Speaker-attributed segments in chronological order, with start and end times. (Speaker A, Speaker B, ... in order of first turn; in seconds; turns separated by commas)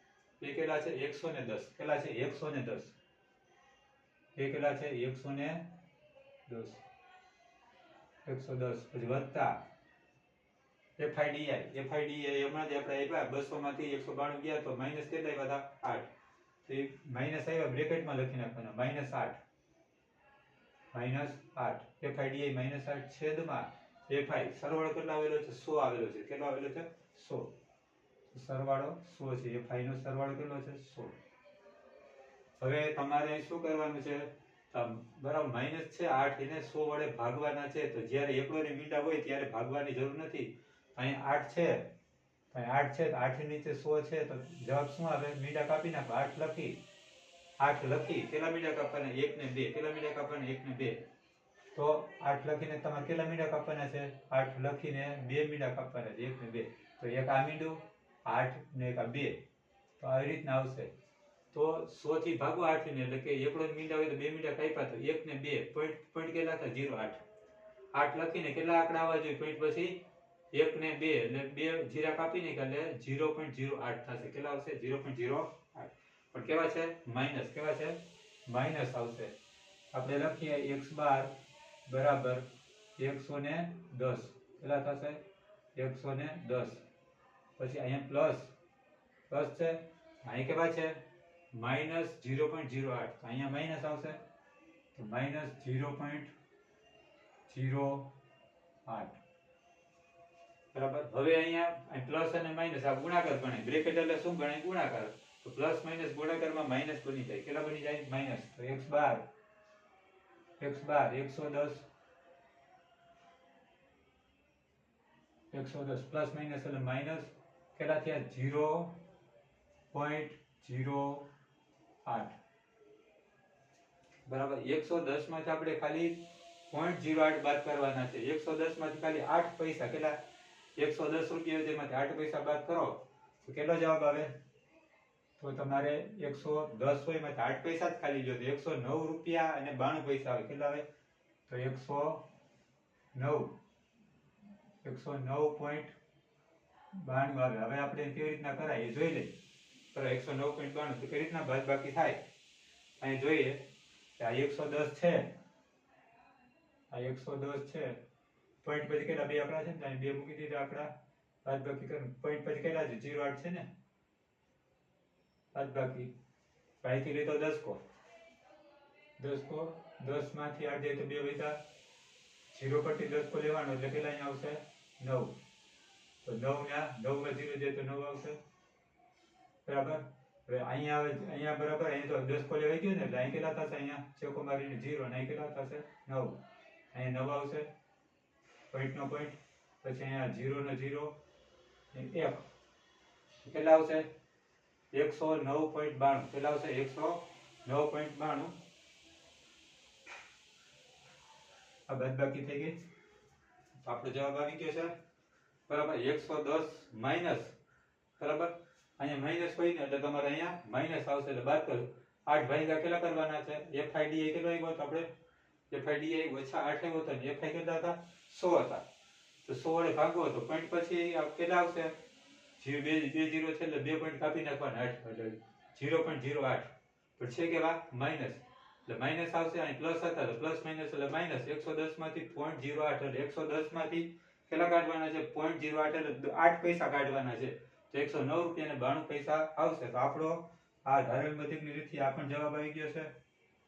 Speaker A: 0.4-3.0, Speaker A: 4.4-5.8, Speaker A: 6.5-6.8, Speaker A: 8.2-9.6, Speaker A: 11.0-16.1, Speaker A: 16.6-19.4, Speaker A: 20.9-27.5, Speaker A: 28.3-31.2, Speaker A: 32.6-41.9, Speaker A: 42.5-46.8, Speaker A: 47.6-51.0, Speaker A: 51.7-59.4, Speaker A: 60.0-60.9, Speaker A: 61.5-67.2, Speaker A: 67.9-79.3, Speaker A: 79.9-81.3, Speaker A: 81.9-85.2, Speaker A: 85.8-86.8, Speaker A: 87.6-88.5, Speaker A: 89.3-94.2, Speaker A: 95.0-96.3, Speaker A: 97.5-98.1, Speaker A: 98.9-99.2, Speaker A: 100.7-109.3, Speaker A: 110.6-111.9, Speaker A: 115.5-119.0, Speaker A: 119.9-121.3, Speaker A: 122.0-122.4, Speaker A: 124.3-130.2, Speaker A: 130.8-134.3, Speaker A: 135.4-140.9, Speaker A: 141.5-142.3, Speaker A: 143.1-143.6, Speaker A: 144.8-145.9, Speaker A: 146.9-149.3, Speaker A: 149.9-152.2, Speaker A: 153.0-153.7, Speaker A: 154.2-155.3, Speaker A: 156.9-158.0, Speaker A: 158.6-160.9, Speaker A: 161.4-163.7, Speaker A: 165.5-166.1, Speaker A: 166.8-167.8, Speaker A: 169.2-171.6, Speaker A: 172.5-175.4, Speaker A: 176.2-178.4, Speaker A: 179.7-186.4, Speaker A: 186.9-187.7, Speaker A: 188.7-191.2, Speaker A: 191.9-192.4, Speaker A: 193.4-194.1, Speaker A: 194.9-198.6, Speaker A: 201.9-202.8, Speaker A: 203.8-204.9, Speaker A: 205.7-207.6, Speaker A: 208.2-215.1, Speaker A: 215.7-218.8, Speaker A: 219.4-222.0, Speaker A: 222.6-243.1